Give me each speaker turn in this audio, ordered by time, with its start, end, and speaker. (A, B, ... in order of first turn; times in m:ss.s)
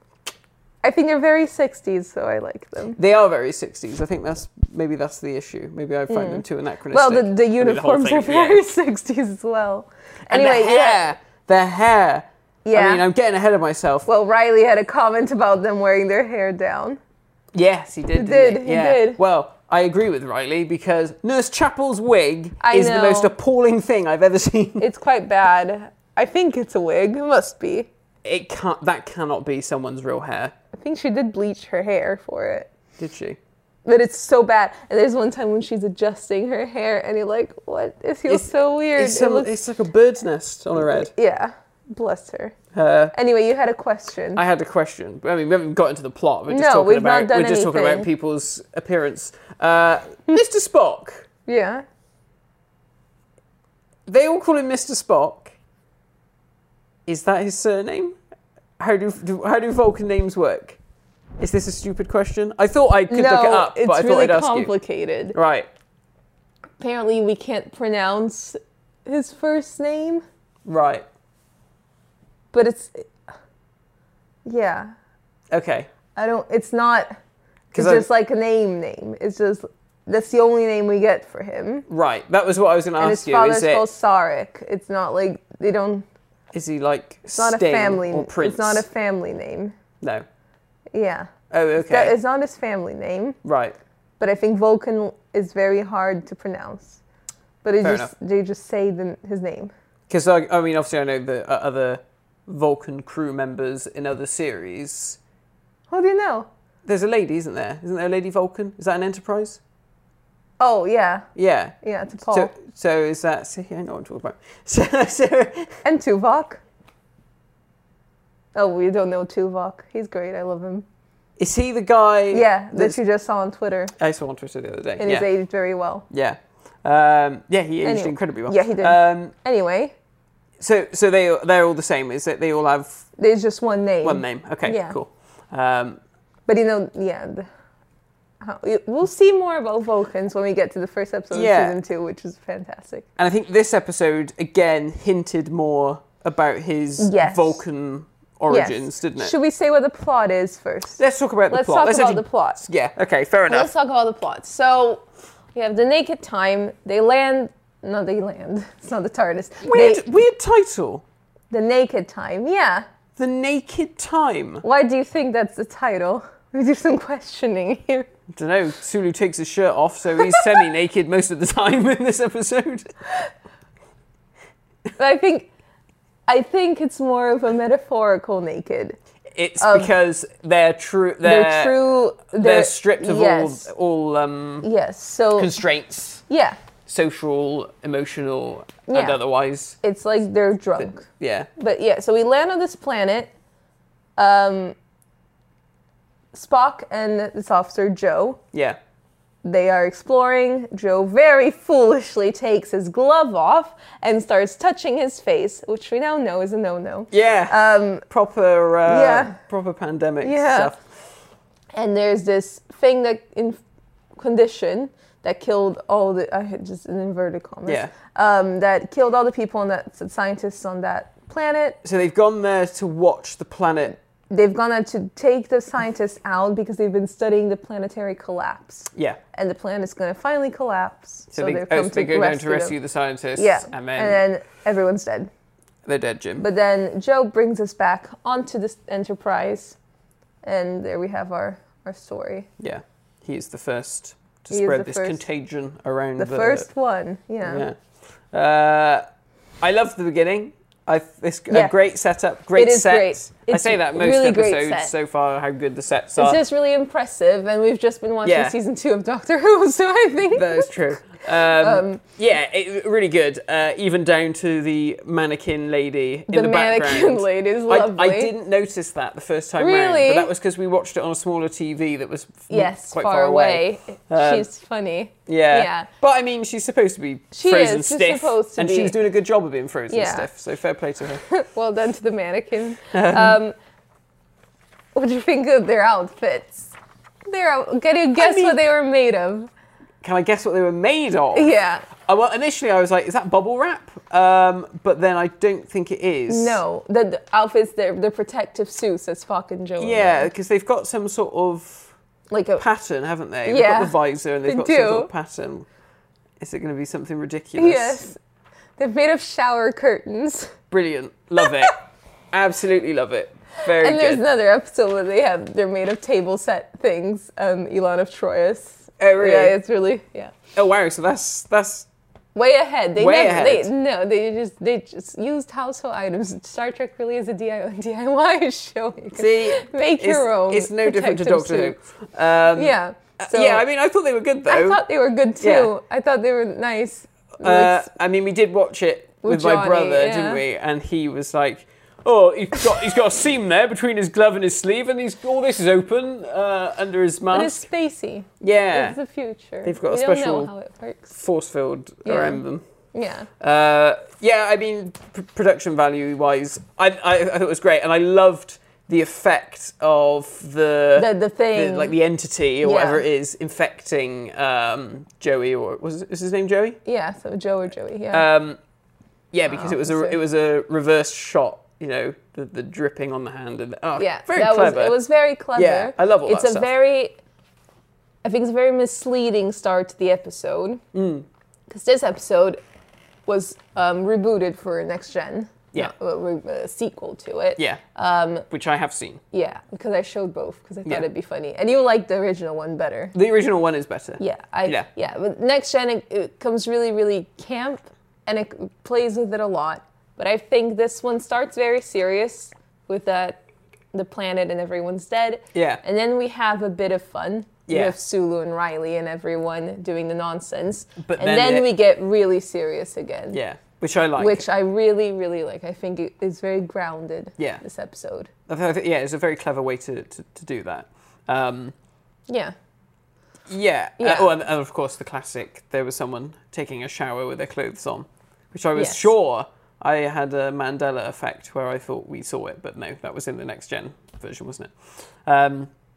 0:00.8-0:03.0 A
0:03.0-0:08.6 B
0:06.1-0:11.1 A
0:10.3-0:14.1 B
0:12.6-0:13.0 A
0:14.1-0:17.0 A
0:17.5-0:24.8 B
0:18.2-0:19.2 A
0:22.6-0:23.3 A
0:24.8-0:27.9 A
0:28.2-0:30.5 B
0:30.7-0:32.7 A
0:33.0-0:33.4 B
0:33.8-0:39.5 A
0:38.3-0:41.1 B
0:40.8-0:42.6 A
0:42.7-0:43.1 B
0:43.1-0:44.4 A
0:44.4-0:51.3 B
0:46.5-0:48.1 A
0:51.5-0:51.8 A
0:54.1-0:55.5 B
0:57.1-0:58.2 B
0:58.8-1:00.8 B
1:01.4-1:04.7 B
1:03.1-1:05.4 A
1:05.3-1:05.7 B
1:06.8-1:10.2 A
1:10.6-1:11.0 B
1:12.5-1:13.2 A
1:14.4-1:14.9 A
1:15.5-1:15.9 B
1:16.2-1:17.2 A
1:17.7-1:18.1 B
1:17.7-1:21.9 A
1:21.9-1:23.9 B
1:23.0-1:26.0 A
1:26.5-1:28.9 B
1:27.4-1:29.8 A
1:30.9-1:33.4 A
1:31.5-1:32.2 B
1:33.4-1:33.8 B
1:34.2-1:37.0 A
1:37.6-1:39.7 A
1:37.8-1:38.1 B
1:40.1-1:45.2 B
1:45.9-1:46.5 A
1:46.9-1:49.6 B
1:50.6-1:51.3 A
1:51.4-1:51.8 B
1:51.8-1:52.5 A
1:52.3-1:55.7 B
1:55.8-1:56.6 A
1:58.6-2:00.8 A
2:01.4-2:03.0 B
2:02.3-2:03.9 A
2:04.0-2:05.3 B
2:05.0-2:06.0 A
2:06.1-2:09.3 B
2:07.8-2:09.9 A
2:10.6-2:13.0 B
2:13.2-2:15.0 A
2:14.0-2:16.0 B
2:16.5-2:17.5 A
2:18.4-2:23.1 A
2:21.3-2:21.8 B
2:23.2-2:29.3 B
2:27.0-2:27.6 A
2:28.5-2:32.7 A
2:31.0-2:33.7 B
2:33.5-2:35.0 A
2:35.6-2:40.0 A
2:39.6-2:41.0 B
2:41.5-2:42.9 A
2:43.2-2:44.6 B
2:44.6-2:48.1 A
2:48.4-2:52.9 B
2:55.0-2:55.5 A
2:56.3-2:59.0 A
2:59.4-3:04.7 B
2:59.6-2:59.9 A
3:01.2-3:03.7 A
3:04.6-3:05.5 A
3:05.4-3:06.2 B
3:06.3-3:06.6 A
3:06.9-3:09.8 B
3:08.9-3:09.2 A
3:09.8-3:11.1 A
3:10.8-3:11.5 B
3:11.6-3:13.3 A
3:14.2-3:14.8 A
3:16.3-3:18.4 A
3:19.4-3:28.0 A
3:27.1-3:30.8 B
3:28.9-3:29.4 A
3:30.2-3:30.7 A
3:31.8-3:33.6 A
3:34.2-3:41.8 A
3:37.7-3:37.9 B
3:41.8-3:44.0 B
3:44.3-3:52.8 A
3:51.3-3:54.2 B
3:53.4-3:55.3 A
3:55.8-3:56.4 B
3:56.4-3:59.8 A
4:00.4-4:02.5 A
4:02.6-4:06.7 B
4:04.5-4:05.2 A
4:06.2-4:07.7 A
4:07.4-4:07.8 B
4:08.3-4:09.0 B
4:09.6-4:16.4 B
4:12.6-4:14.9 A
4:16.2-4:20.8 A
4:18.2-4:18.6 B
4:20.3-4:34.5 B
4:21.4-4:22.0 A
4:26.3-4:28.3 A
4:29.6-4:30.3 A
4:32.5-4:35.9 A
4:35.3-4:41.2 B
4:37.3-4:39.0 A
4:39.9-4:40.3 A
4:41.3-4:43.6 A
4:42.9-4:43.4 B
4:45.0-4:46.7 A
4:47.3-4:49.5 A
4:48.2-4:48.6 B
4:50.0-4:56.6 B
4:51.3-4:51.9 A
4:56.3-5:00.3 A
4:59.8-5:01.9 B
5:02.3-5:02.6 A
5:02.6-5:05.7 B
5:03.5-5:04.0 A
5:04.5-5:05.1 A
5:06.4-5:08.0 B
5:07.6-5:08.2 A
5:08.8-5:10.6 A
5:10.7-5:14.2 B
5:13.6-5:20.4 A
5:19.0-5:19.6 B
5:20.5-5:21.9 B
5:22.4-5:31.8 A
5:23.0-5:23.7 B
5:29.2-5:34.8 B
5:32.5-5:33.6 A
5:34.5-5:37.9 A
5:35.4-5:35.7 B
5:37.4-5:47.6 B
5:39.2-5:40.4 A
5:47.3-5:51.2 A
5:48.4-5:49.0 B
5:49.6-5:50.5 B
5:51.2-5:52.6 B
5:52.0-5:52.4 A
5:52.9-5:53.3 A
5:53.4-6:06.8 B
6:01.0-6:01.9 A
6:02.6-6:03.0 A
6:06.8-6:08.2 A
6:08.1-6:08.6 B
6:09.3-6:15.0 B
6:09.5-6:10.2 A
6:14.0-6:17.2 A
6:15.6-6:16.7 B
6:18.2-6:20.8 A
6:20.9-6:21.3 B
6:21.7-6:22.6 A
6:23.3-6:28.5 A
6:28.5-6:29.2 B
6:29.3-6:33.1 A
6:33.1-6:34.9 B
6:34.2-6:43.4 A
6:43.9-6:53.4 A
6:45.5-6:45.8 B
6:47.7-6:48.0 B
6:51.0-6:51.7 B
6:53.3-6:54.4 B
6:54.2-6:58.3 A
6:58.5-7:01.7 B
7:02.3-7:02.6 A
7:03.5-7:14.7 B
7:04.0-7:04.3 A
7:08.8-7:09.1 A
7:15.2-7:15.7 B